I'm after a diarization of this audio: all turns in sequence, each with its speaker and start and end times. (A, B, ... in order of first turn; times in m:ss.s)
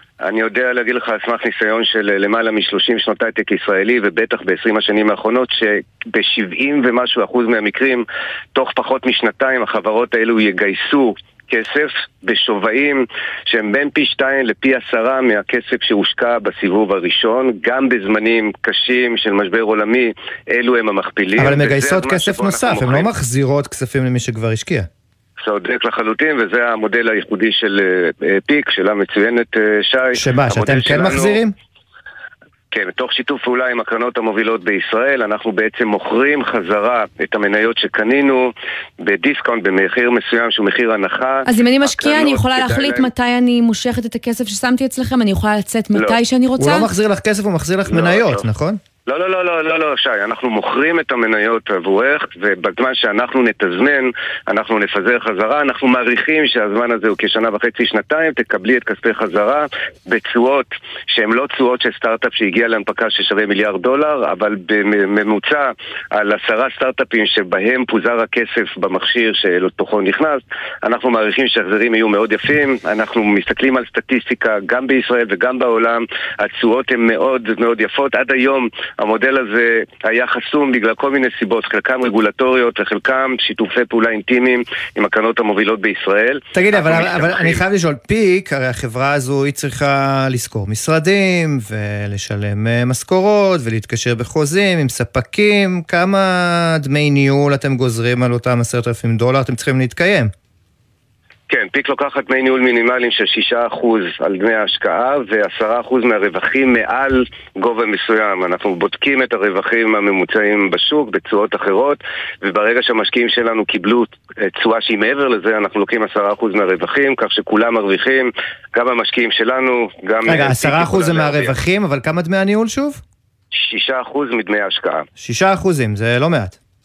0:00.2-0:08.0 A
0:08.5-0:23.1 A
0:21.4-0:24.9 B
0:25.4-0:31.4 A
0:30.2-0:31.5 B
0:32.7-0:38.5 A
0:39.0-0:43.1 A
0:41.4-0:46.9 C
0:46.6-0:48.8 B
0:47.9-0:48.4 A
0:49.1-1:27.6 A
1:26.5-1:40.3 B
1:41.5-2:01.6 A
2:00.2-2:03.0 B
2:03.5-2:05.0 A
2:05.2-2:06.6 B